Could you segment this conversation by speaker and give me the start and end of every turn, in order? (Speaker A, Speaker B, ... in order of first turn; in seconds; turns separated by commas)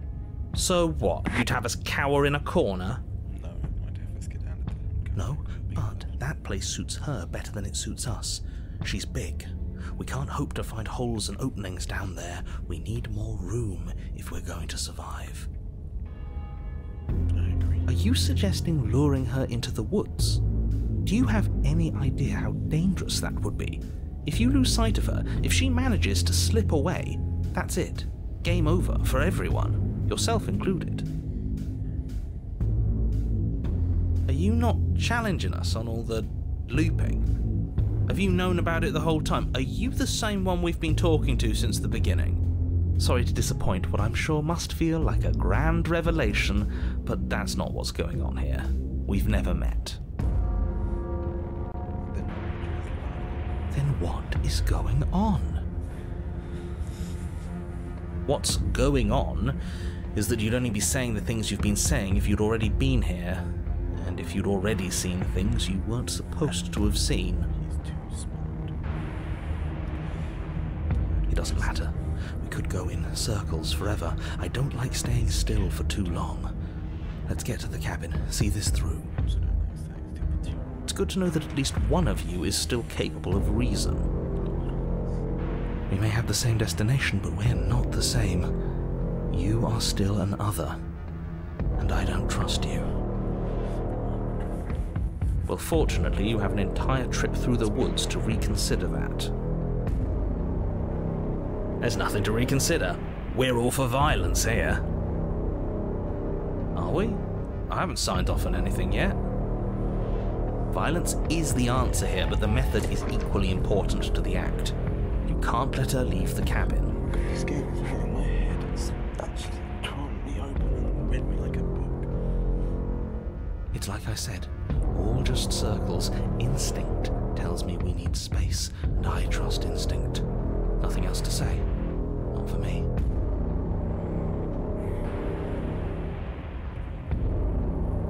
Speaker A: 0.6-3.0, Speaker B: 3.3-6.2, Speaker A: 5.2-15.5, Speaker B: 17.3-17.9, Speaker A: 17.9-20.4, Speaker A: 21.1-31.1, Speaker A: 34.3-37.3, Speaker A: 38.1-42.4, Speaker A: 43.0-50.0, Speaker B: 52.0-53.6, Speaker A: 53.7-55.6, Speaker A: 58.3-59.6, Speaker A: 60.1-67.5, Speaker B: 67.5-68.8, Speaker B: 70.9-71.9, Speaker A: 71.3-76.5, Speaker B: 74.9-76.3, Speaker A: 77.3-79.1, Speaker B: 79.1-80.8, Speaker A: 80.9-84.1, Speaker A: 85.9-88.5, Speaker A: 89.3-90.8, Speaker A: 91.8-92.9, Speaker A: 95.5-99.3, Speaker A: 101.8-104.8, Speaker A: 106.8-109.2, Speaker A: 110.7-117.0, Speaker B: 117.0-122.1, Speaker A: 123.7-130.3, Speaker A: 130.8-131.7, Speaker A: 132.3-132.9